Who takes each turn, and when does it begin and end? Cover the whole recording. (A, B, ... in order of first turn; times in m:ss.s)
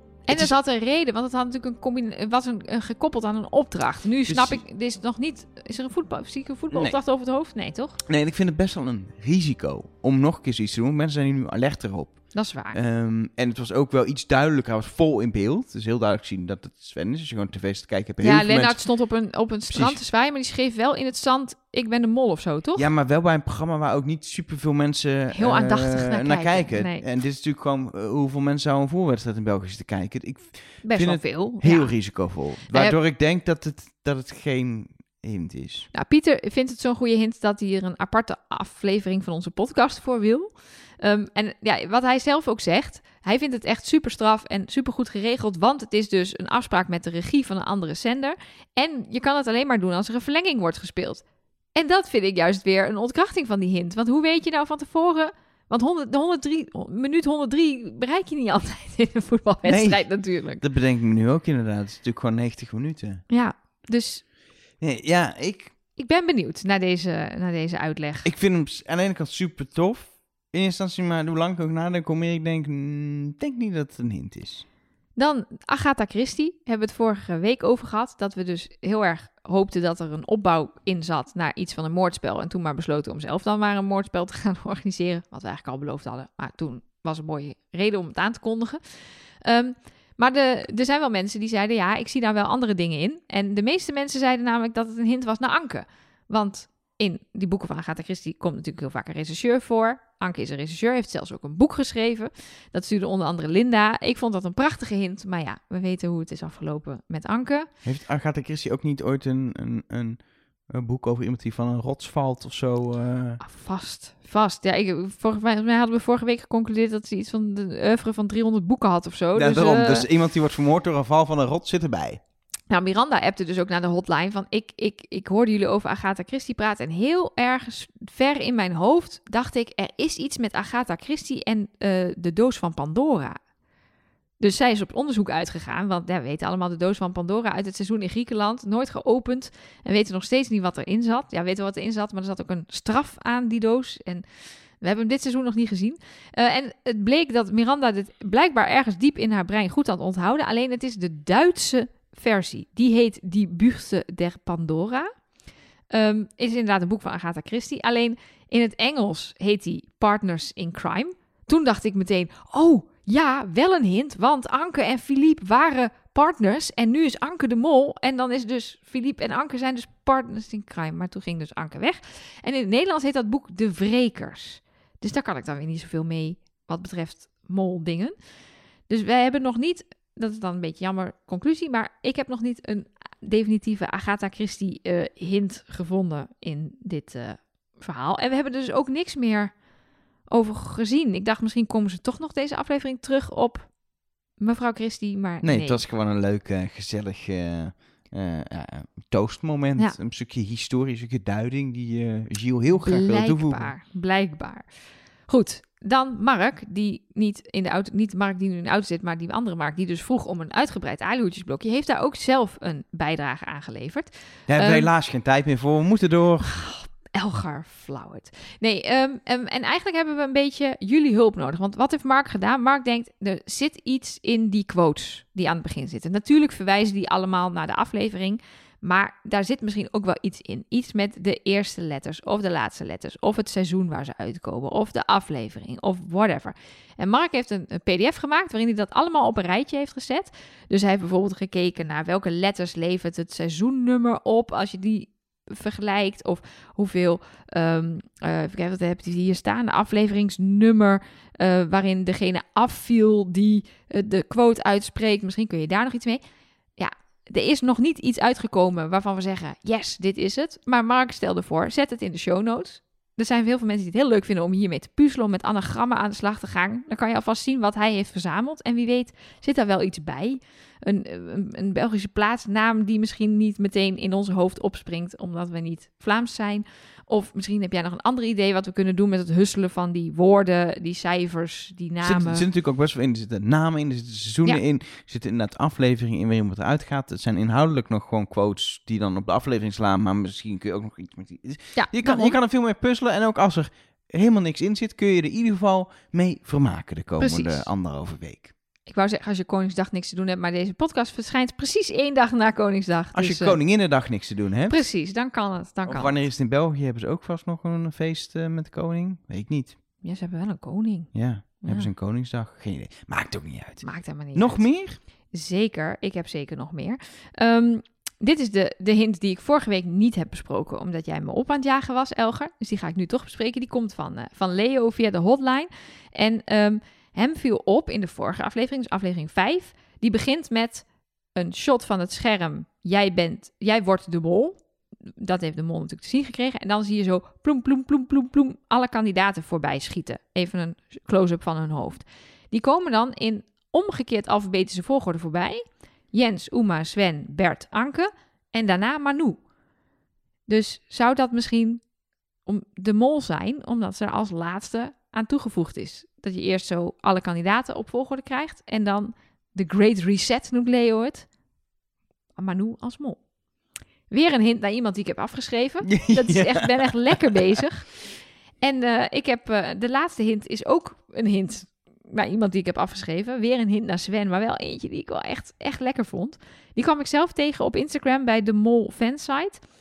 0:00.3-0:08.0 A
0:00.3-0:00.5 B
0:04.3-0:04.6 B
0:06.7-0:07.0 B
0:08.1-0:18.8 B
0:12.3-0:12.8 A
0:18.2-0:22.9 A
0:19.7-0:20.0 B
0:22.8-0:35.9 B
0:25.4-0:27.0 A
0:30.8-0:33.0 A
0:35.9-0:51.2 A
0:51.8-1:00.6 A
0:59.6-1:00.0 B
1:00.6-1:03.2 B
1:03.3-1:04.2 A
1:04.8-1:05.7 B
1:06.0-1:08.3 A
1:08.2-1:14.6 B
1:15.2-1:28.8 A
1:29.4-1:47.7 A
1:47.8-1:53.4 B
1:53.4-2:00.1 A
1:59.4-2:02.2 B
2:02.7-2:13.4 A
2:14.4-2:24.2 A
2:24.8-2:35.1 A
2:35.9-2:58.1 A
2:58.9-3:09.5 A
3:10.3-3:13.7 A
3:14.4-3:15.8 A
3:15.4-3:23.7 B
3:22.8-3:24.6 A
3:25.3-3:34.9 A
3:34.5-3:36.6 B
3:36.4-4:16.2 A
4:16.8-4:42.5 A
4:42.0-4:58.5 B
4:51.8-4:52.4 A
4:57.2-4:57.7 A
4:58.9-5:03.6 A
5:03.2-5:04.8 B
5:04.7-5:06.2 A
5:05.9-5:09.8 B
5:10.0-5:11.1 A
5:11.1-5:15.0 B
5:11.6-5:11.9 A
5:13.8-5:14.6 A
5:15.3-5:34.6 A
5:35.2-5:49.4 A
5:50.5-5:51.8 A
5:52.5-6:01.3 A
6:02.4-6:03.2 A
6:04.1-6:07.9 A
6:05.9-6:07.6 B
6:08.6-6:19.6 A